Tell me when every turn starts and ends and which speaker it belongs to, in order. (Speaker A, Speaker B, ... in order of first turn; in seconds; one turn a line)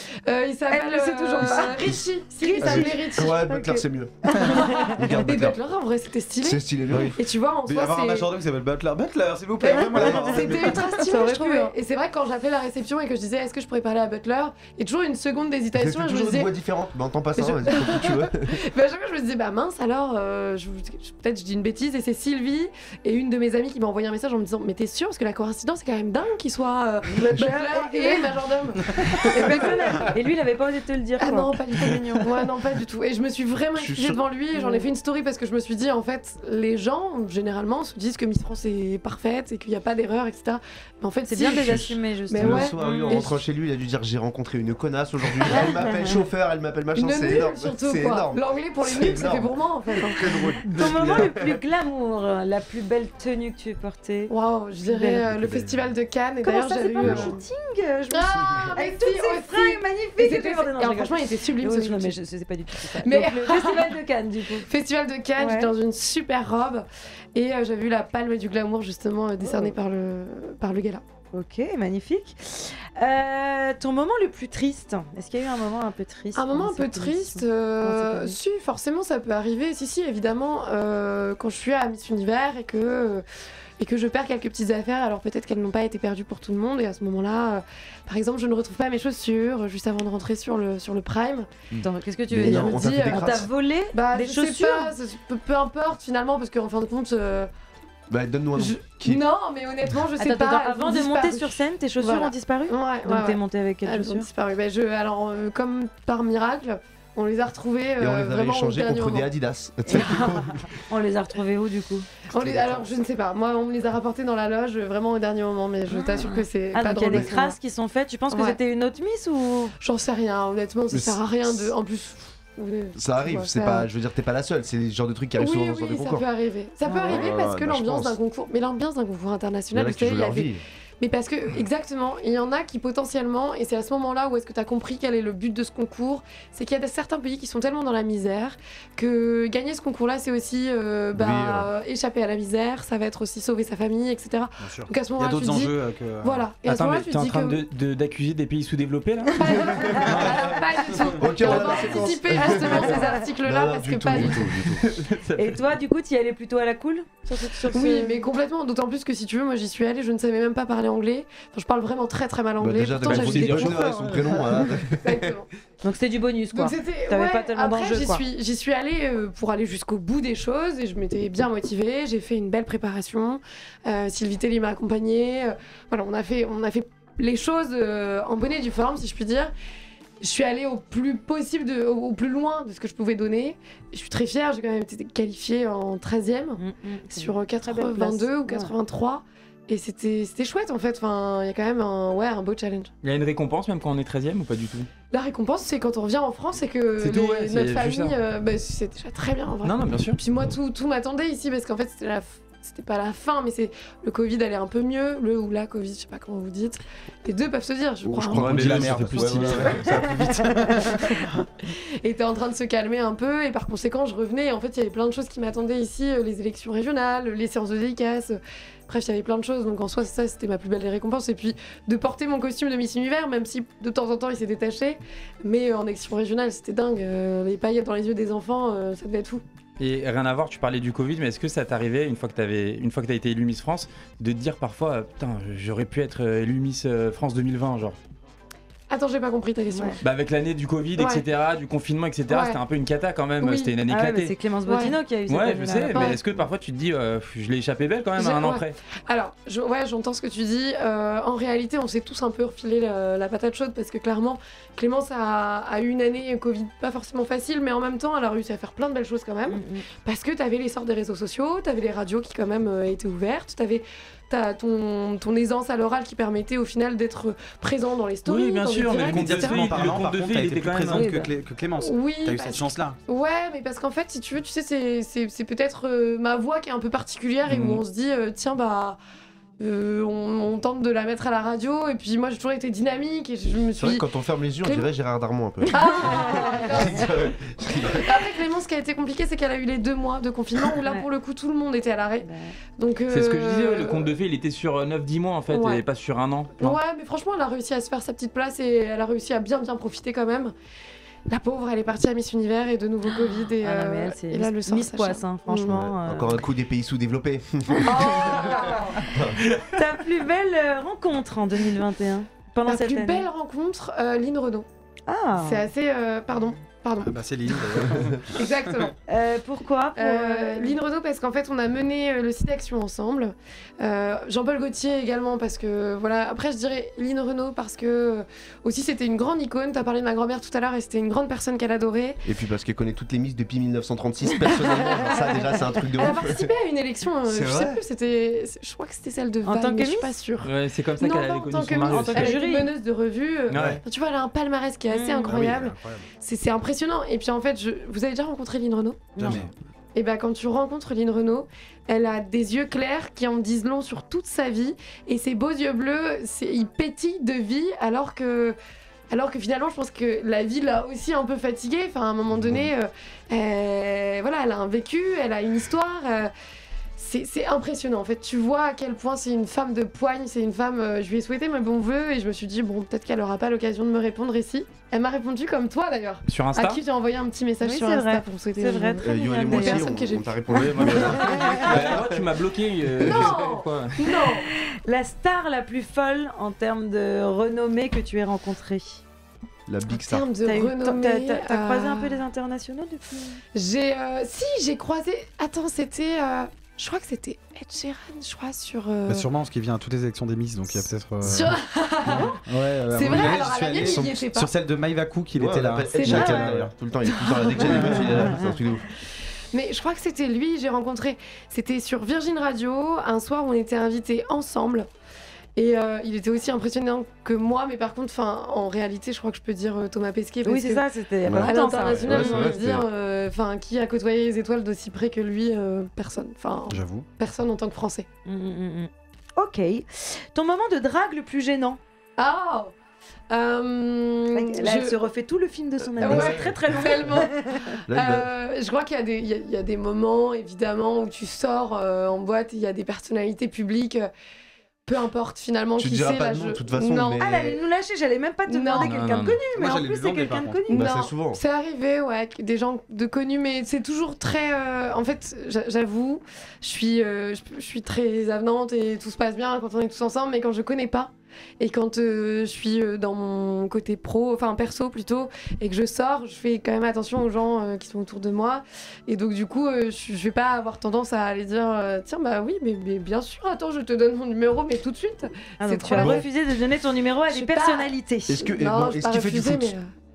Speaker A: 0.2-3.4
Speaker B: 0.7-5.1
Speaker C: 1.5-2.0
Speaker C: 2.6-5.6
Speaker A: 4.5-8.3
Speaker C: 6.4-7.2
Speaker D: 6.9-10.8
Speaker A: 9.6-16.5
Speaker C: 9.9-10.9
Speaker B: 10.8-11.7
Speaker C: 15.7-18.6
Speaker A: 17.4-30.1
Speaker C: 27.2-27.5
Speaker B: 27.3-28.3
Speaker B: 29.1-32.0
Speaker A: 31.2-43.4
Speaker C: 33.8-34.2
Speaker B: 34.5-34.9
Speaker B: 41.3-43.2
Speaker C: 41.6-51.6
Speaker A: 47.0-50.4
Speaker B: 50.6-54.3
Speaker A: 54.3-57.4
Speaker B: 54.9-55.3
Speaker D: 55.4-55.7
Speaker B: 56.4-64.7
Speaker A: 58.1-62.2
Speaker A: 62.9-64.0
Speaker A: 64.5-71.0
Speaker B: 65.4-65.7
Speaker B: 69.4-69.7
Speaker B: 71.3-78.3
Speaker A: 76.3-83.2
Speaker A: 83.8-91.5
Speaker B: 91.8-94.9
Speaker C: 92.3-93.5
Speaker A: 92.4-97.5
Speaker C: 98.1-99.2
Speaker A: 98.6-109.3
Speaker B: 100.2-104.2
Speaker C: 108.0-110.8
Speaker A: 109.9-110.3
Speaker B: 110.9-112.1
Speaker A: 112.3-117.5
Speaker C: 112.3-112.8
Speaker B: 115.9-119.7
Speaker A: 118.3-118.6
Speaker A: 119.8-123.8
Speaker C: 120.9-121.7
Speaker C: 123.0-126.2
Speaker A: 125.4-147.6
Speaker B: 126.8-127.2
Speaker C: 127.0-128.2
Speaker C: 129.7-130.6
Speaker C: 141.1-141.7
Speaker D: 144.6-146.5
Speaker E: 146.6-149.8
Speaker A: 149.3-154.8
Speaker C: 149.6-150.6
Speaker D: 150.0-151.8
Speaker C: 151.1-155.2
Speaker E: 155.2-155.6
Speaker B: 155.3-158.2
Speaker A: 157.7-163.9
Speaker C: 162.6-165.3
Speaker E: 163.0-164.6
Speaker A: 164.9-165.4
Speaker B: 165.8-168.2
Speaker A: 166.5-179.5
Speaker A: 180.2-186.6
Speaker B: 186.6-188.7
Speaker A: 187.1-192.9
Speaker E: 193.0-194.9
Speaker A: 195.1-208.6
Speaker E: 197.0-198.2
Speaker E: 199.6-200.2
Speaker C: 208.0-210.5
Speaker E: 208.3-209.8
Speaker D: 208.3-211.3
Speaker A: 210.9-229.4
Speaker E: 229.8-238.0
Speaker A: 238.9-240.0
Speaker B: 239.7-240.0
Speaker E: 240.0-244.3
Speaker A: 240.9-241.2
Speaker A: 242.3-242.6
Speaker A: 243.4-243.7
Speaker B: 243.9-246.2
Speaker A: 244.7-245.0
Speaker E: 245.3-248.7
Speaker A: 245.9-246.2
Speaker A: 248.2-269.7
Speaker B: 259.5-259.8
Speaker E: 268.2-271.1
Speaker D: 268.9-273.0
Speaker B: 270.9-271.3
Speaker A: 271.8-279.0
Speaker E: 277.4-277.8
Speaker A: 279.6-284.0
Speaker C: 283.8-288.3
Speaker A: 285.7-287.3
Speaker B: 286.1-286.5
Speaker A: 287.8-294.1
Speaker B: 292.2-292.6
Speaker E: 293.1-296.8
Speaker A: 295.5-295.8
Speaker A: 296.6-300.5
Speaker A: 301.3-305.7
Speaker B: 303.1-306.4
Speaker C: 305.6-309.5
Speaker A: 307.8-309.1
Speaker B: 309.6-313.3
Speaker A: 312.6-314.7
Speaker B: 315.1-315.6
Speaker A: 315.4-318.9
Speaker D: 317.0-318.9
Speaker C: 317.9-318.2
Speaker B: 319.1-320.8
Speaker A: 320.0-332.2
Speaker C: 332.2-336.5
Speaker A: 334.6-335.2
Speaker A: 335.9-349.1
Speaker C: 337.2-337.8
Speaker B: 339.4-340.1
Speaker E: 340.4-342.4
Speaker B: 341.8-342.7
Speaker E: 343.5-343.8
Speaker B: 344.9-345.4
Speaker C: 345.3-345.8
Speaker D: 345.3-346.1
Speaker B: 349.1-349.5
Speaker D: 349.2-349.5
Speaker A: 349.9-358.6
Speaker A: 359.1-366.3
Speaker A: 367.0-381.0
Speaker E: 376.2-376.8
Speaker B: 377.6-380.0
Speaker C: 379.0-382.4
Speaker E: 380.5-384.0
Speaker B: 381.2-381.6
Speaker C: 382.9-383.3
Speaker A: 383.0-384.4
Speaker B: 384.1-389.0
Speaker C: 389.7-390.2
Speaker A: 389.9-392.2
Speaker B: 390.4-393.3
Speaker A: 393.5-399.3
Speaker D: 399.1-401.6
Speaker A: 401.2-404.5
Speaker D: 402.1-406.7
Speaker C: 403.1-404.2
Speaker C: 405.3-408.8
Speaker A: 406.0-406.4
Speaker B: 406.0-406.4
Speaker A: 407.1-408.6
Speaker B: 408.1-408.4
Speaker A: 409.5-414.9
Speaker A: 415.6-428.1
Speaker B: 420.4-422.6
Speaker C: 421.2-422.9
Speaker D: 426.7-427.1
Speaker B: 428.2-431.8
Speaker A: 432.2-432.7
Speaker A: 433.3-434.9
Speaker B: 434.3-437.8
Speaker C: 435.9-437.0
Speaker A: 436.0-444.1
Speaker C: 437.9-438.3
Speaker A: 444.9-447.3
Speaker C: 445.8-447.6
Speaker B: 447.2-450.8
Speaker A: 448.5-449.0
Speaker E: 448.8-449.4
Speaker D: 449.4-450.7
Speaker C: 450.7-451.4
Speaker A: 450.7-476.3
Speaker B: 475.6-478.5
Speaker C: 476.0-476.2
Speaker A: 477.3-479.9
Speaker C: 478.3-479.8